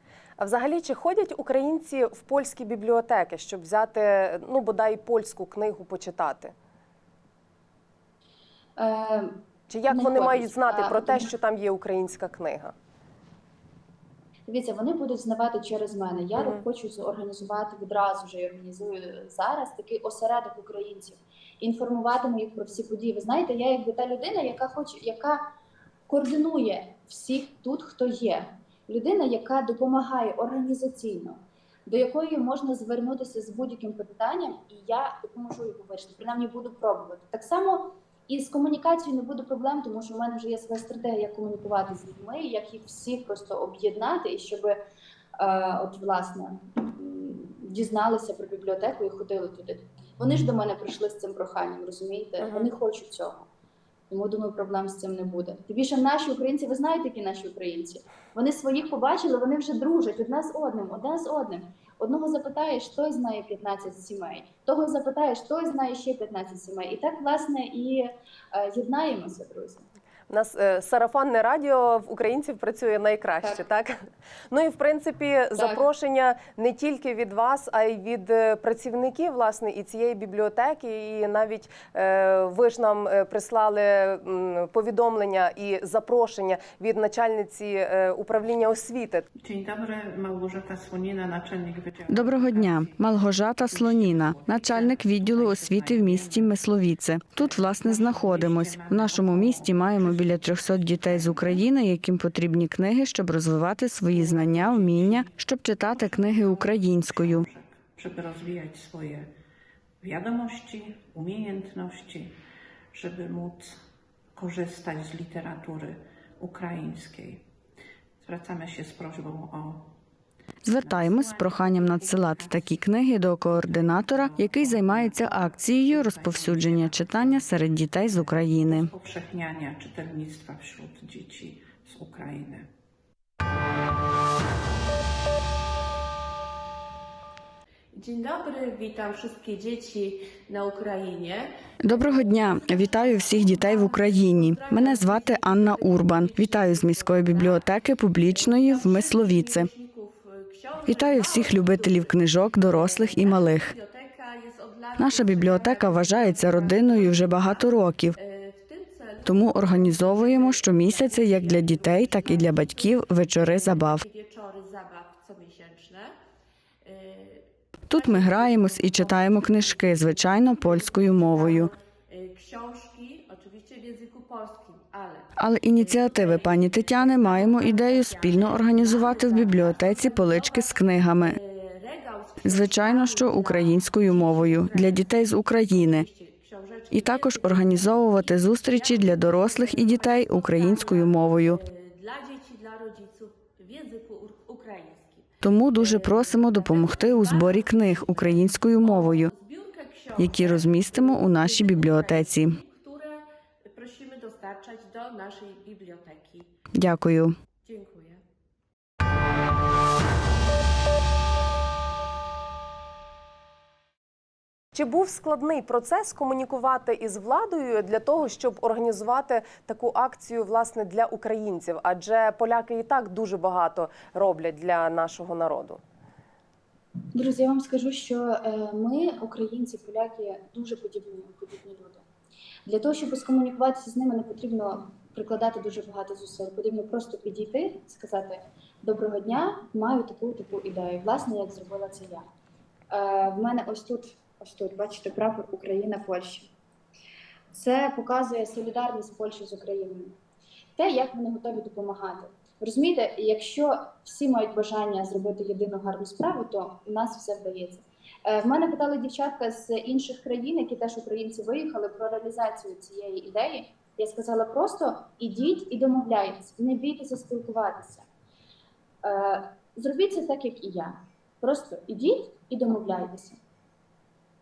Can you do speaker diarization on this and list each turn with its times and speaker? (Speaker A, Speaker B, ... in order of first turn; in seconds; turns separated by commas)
Speaker A: 0.4-6.5, Speaker B: 8.8-9.4, Speaker A: 9.7-12.7, Speaker B: 9.9-11.3, Speaker B: 14.5-25.4, Speaker A: 16.4-16.6, Speaker B: 26.1-44.8, Speaker B: 45.4-53.5, Speaker A: 52.4-52.7, Speaker B: 54.1-69.9, Speaker A: 70.3-89.3, Speaker B: 75.6-75.9, Speaker C: 89.4-96.6, Speaker D: 92.1-107.5, Speaker C: 97.4-101.7, Speaker C: 104.1-109.3, Speaker C: 110.0-112.4, Speaker C: 112.9-113.8, Speaker C: 114.3-117.5, Speaker C: 118.2-119.9, Speaker D: 120.6-128.9, Speaker C: 120.7-132.7, Speaker E: 137.9-166.1, Speaker D: 141.8-149.7, Speaker D: 150.8-153.7, Speaker D: 155.0-158.2, Speaker D: 159.2-164.1, Speaker E: 166.8-206.5, Speaker D: 167.9-171.7, Speaker D: 175.4-181.4, Speaker D: 182.4-186.1, Speaker D: 186.9-191.6, Speaker D: 195.4-199.3, Speaker D: 200.2-202.6, Speaker D: 206.8-207.3, Speaker E: 207.6-208.2, Speaker A: 214.7-225.8, Speaker B: 227.2-232.1, Speaker B: 232.7-242.3, Speaker B: 242.9-246.5, Speaker B: 247.5-250.2, Speaker B: 250.8-268.1, Speaker B: 269.0-273.4